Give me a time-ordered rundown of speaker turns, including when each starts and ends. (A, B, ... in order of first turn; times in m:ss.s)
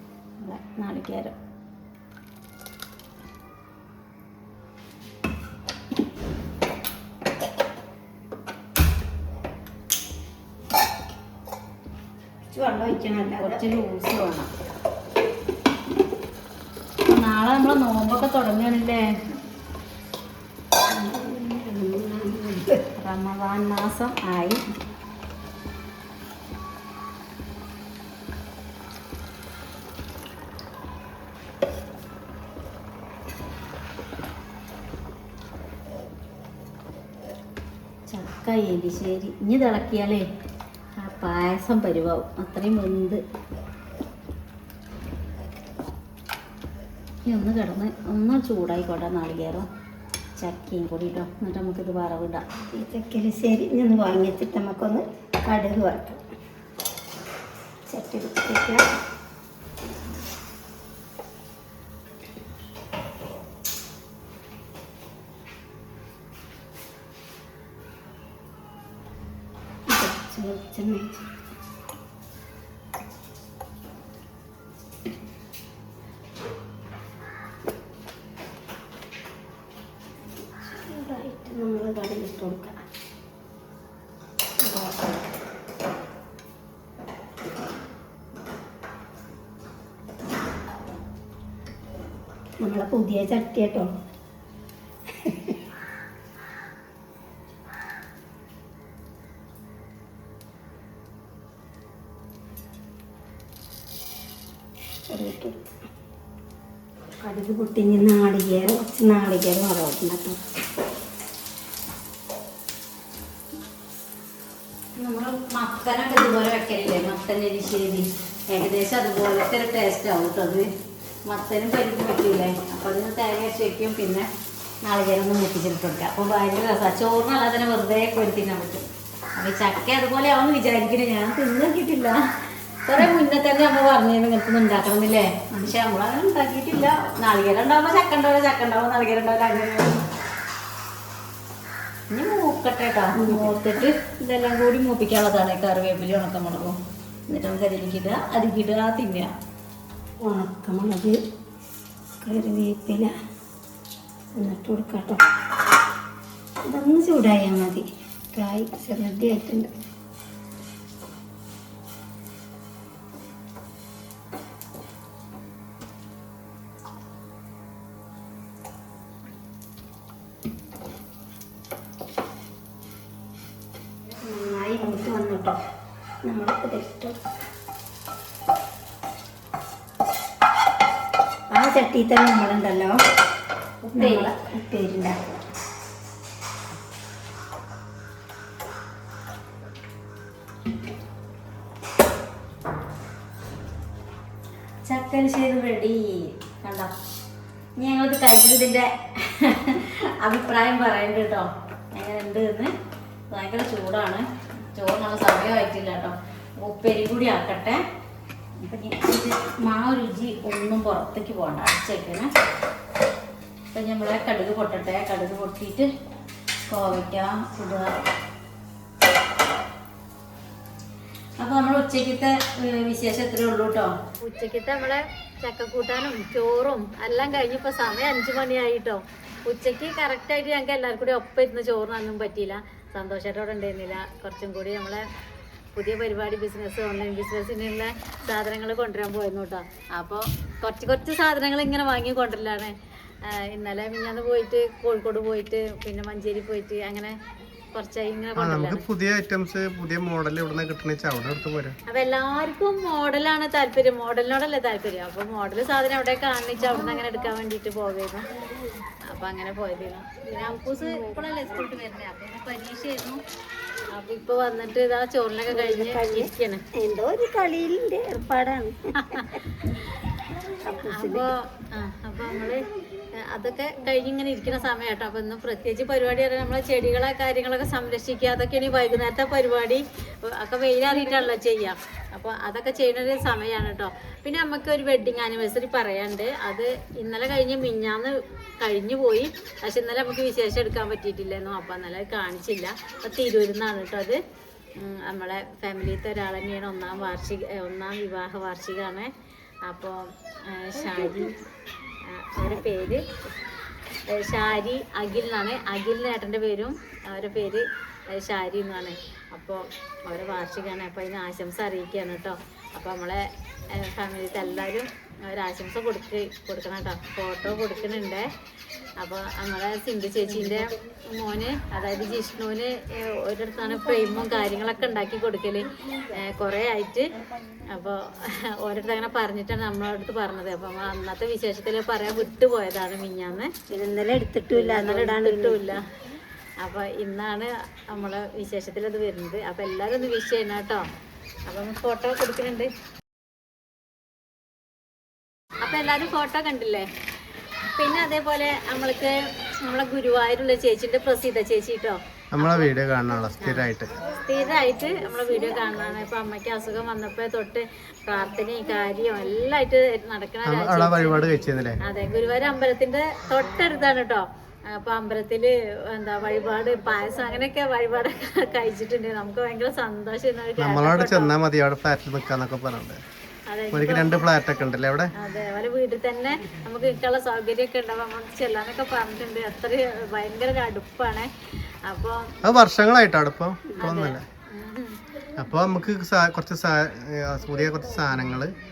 0:00.4-0:01.3 A
0:12.5-0:13.6 B
0:13.4-0:14.5 A
0:17.0-0:19.1 A
0:20.9-0:22.8 B
0:23.0-0:24.6 A
0:38.1-0:40.3 A
0:41.0-0:43.2 A
0:47.2-0:49.7 A
0:50.4-0:52.4 A
0:52.7-0:56.2 B
0:57.9-0:58.8 B
1:09.9-1:11.2 B
1:20.6-1:22.8 B
1:24.6-1:25.2 B
1:32.6-1:33.9 B
1:35.1-1:35.6 B
1:45.1-1:45.7 B
1:47.2-1:50.4 B
1:55.0-2:00.7 A
2:01.3-2:04.3 A
2:04.8-2:12.2 A
2:12.8-2:20.0 A
2:22.1-2:26.8 A
2:23.1-2:23.8 B
2:27.3-2:29.3 A
2:30.2-2:31.2 B
2:32.2-2:33.1 B
2:34.4-2:35.2 B
2:36.6-2:39.7 B
2:54.2-2:55.6 B
2:56.2-2:57.1 B
3:01.5-3:03.0 B
3:03.8-3:04.3 A
3:04.0-3:05.2 B
3:14.8-3:16.9 A
3:17.8-3:22.7 A
3:23.3-3:27.8 A
3:28.6-3:32.3 A
3:33.7-3:35.9 A
3:36.7-3:38.1 A
3:41.4-3:55.0 A
3:55.7-4:07.2 A
4:07.7-4:08.8 A
4:08.4-4:11.8 C
4:11.9-4:18.2 A
4:19.0-4:23.2 A
4:20.8-4:21.3 B
4:23.9-4:26.6 A
4:25.5-4:29.4 B
4:29.0-4:29.8 A
4:30.4-4:31.3 B
4:30.9-4:32.6 A
4:33.1-4:54.2 A
4:54.8-4:59.1 A
4:59.6-5:01.3 A
5:02.0-5:03.3 A
5:04.1-5:18.3 A
5:19.0-5:27.1 A
5:27.7-5:33.5 A
5:33.7-5:35.8 B
5:34.5-5:35.8 A
5:36.6-5:40.8 A
5:41.4-5:42.7 A
5:45.6-5:46.9 A
5:47.7-5:52.0 A
5:52.3-5:53.9 C
5:53.4-6:11.3 A
6:00.4-6:01.8 C
6:10.6-6:13.0 C
6:13.5-6:14.2 A
6:13.7-6:15.1 C
6:15.2-6:21.3 A
6:21.8-6:22.3 A
6:22.4-6:24.2 C
6:23.8-6:25.0 A
6:25.4-6:28.5 C